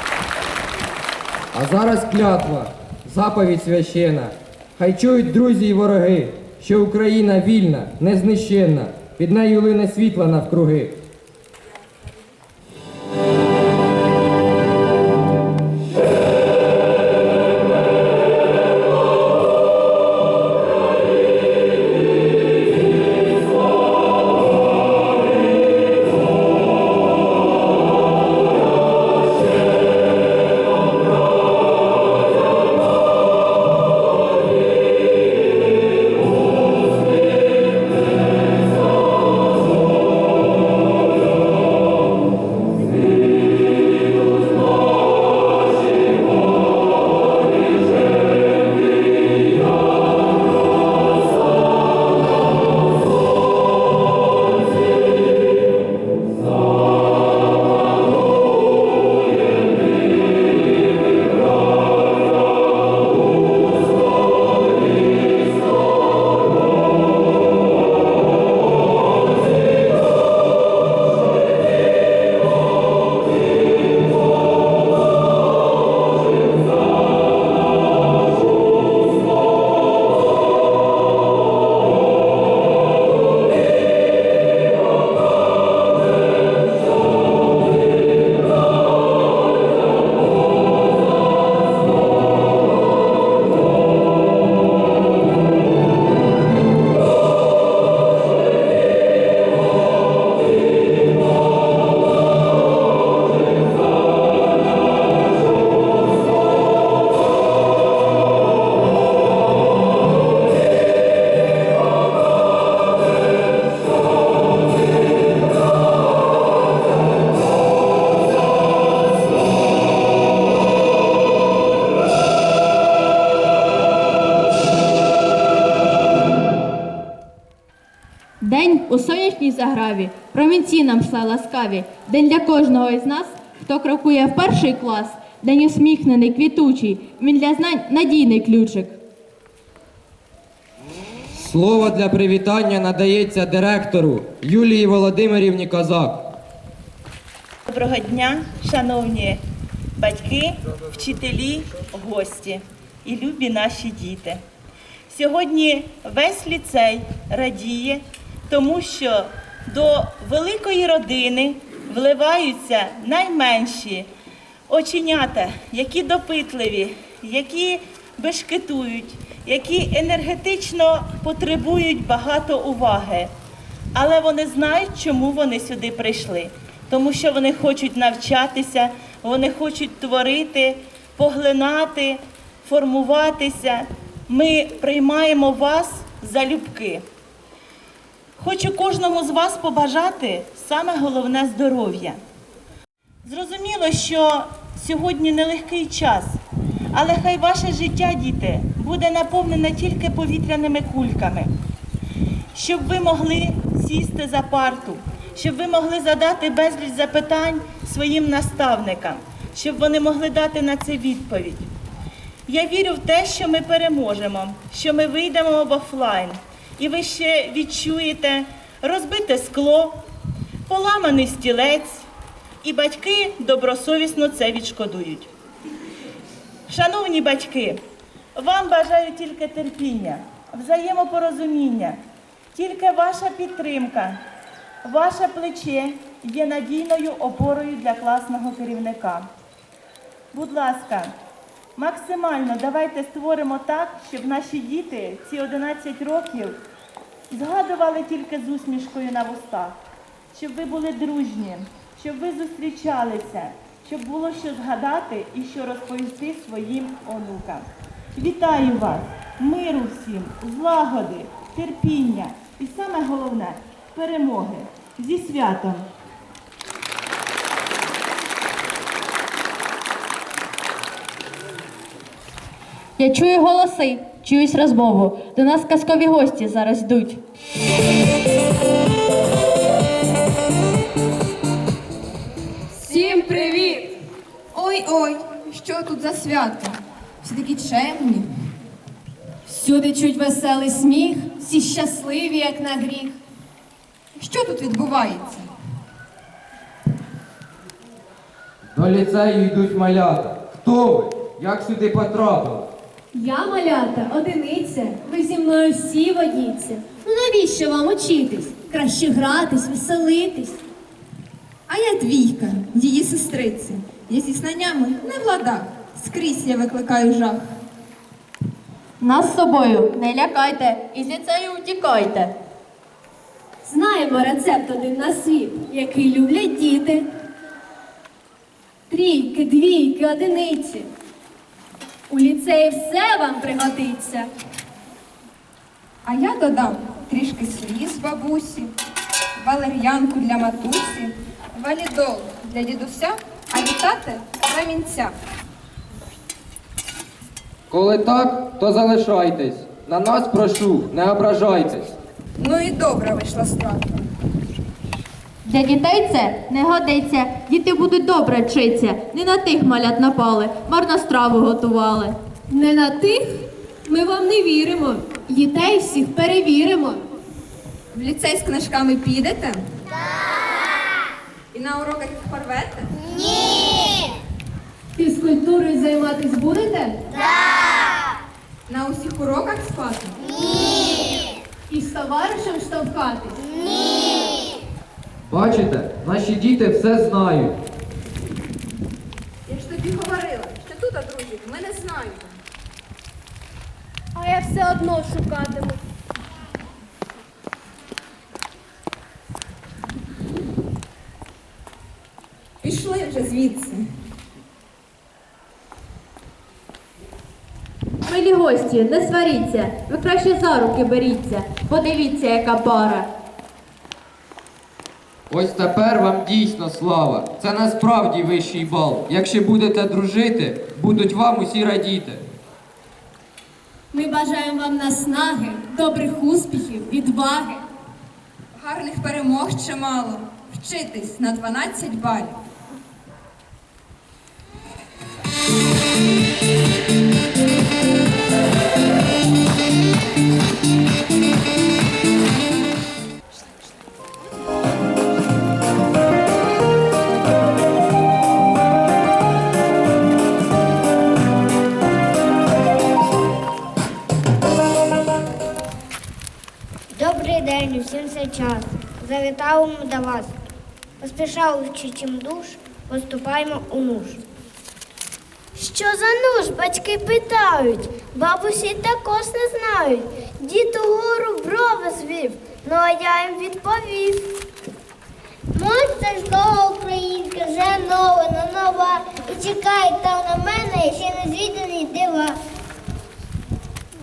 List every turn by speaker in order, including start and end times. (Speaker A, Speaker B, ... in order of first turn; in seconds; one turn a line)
Speaker A: 1.5-11.0
Speaker B: 128.4-139.0
Speaker A: 141.3-146.3
Speaker C: 147.7-149.4
Speaker C: 150.0-154.4
Speaker C: 155.1-164.1
Speaker C: 164.7-173.3
Speaker C: 173.9-187.0
Speaker C: 188.4-192.2
Speaker C: 193.2-196.4
Speaker C: 196.9-201.5
Speaker C: 202.5-211.7
Speaker C: 212.5-220.0
Speaker C: 220.7-222.1
Speaker C: 222.6-225.3
Speaker C: 226.7-227.8
Speaker C: 228.3-232.0
Speaker C: 232.5-234.2
Speaker C: 234.8-239.3
Speaker C: 240.3-241.1
Speaker C: 241.8-246.6
Speaker C: 247.3-249.8
Speaker C: 250.3-265.9
Speaker B: 273.0-277.2
Speaker D: 282.9-283.9
Speaker E: 284.5-288.3
Speaker D: 289.4-293.2
Speaker E: 294.2-295.5
Speaker A: 298.7-302.7
Speaker D: 303.1-310.6
Speaker E: 311.7-317.4
Speaker B: 319.0-322.3
Speaker D: 323.6-327.1
Speaker D: 328.9-330.9
Speaker D: 332.1-334.3
Speaker E: 336.0-338.7
Speaker E: 339.4-345.1
Speaker A: 347.7-351.9
Speaker E: 352.4-354.0
Speaker B: 355.4-362.1
Speaker D: 362.5-367.1
Speaker E: 367.9-369.6
Speaker E: 371.5-372.9
Speaker F: 373.3-374.0
Speaker D: 374.9-377.0
Speaker F: 377.1-378.0
Speaker E: 378.7-380.2
Speaker F: 380.4-381.1
Speaker D: 381.7-383.4
Speaker F: 383.7-384.4
Speaker A: 385.3-387.6
Speaker E: 389.5-392.3
Speaker D: 394.1-395.8
Speaker E: 402.6-403.8
Speaker B: 408.1-413.1
Speaker A: 415.3-422.2
Speaker D: 423.9-427.6
Speaker E: 428.6-432.4
Speaker F: 456.9-460.3
Speaker F: 461.0-464.2
Speaker F: 465.5-474.3
Speaker F: 475.5-482.4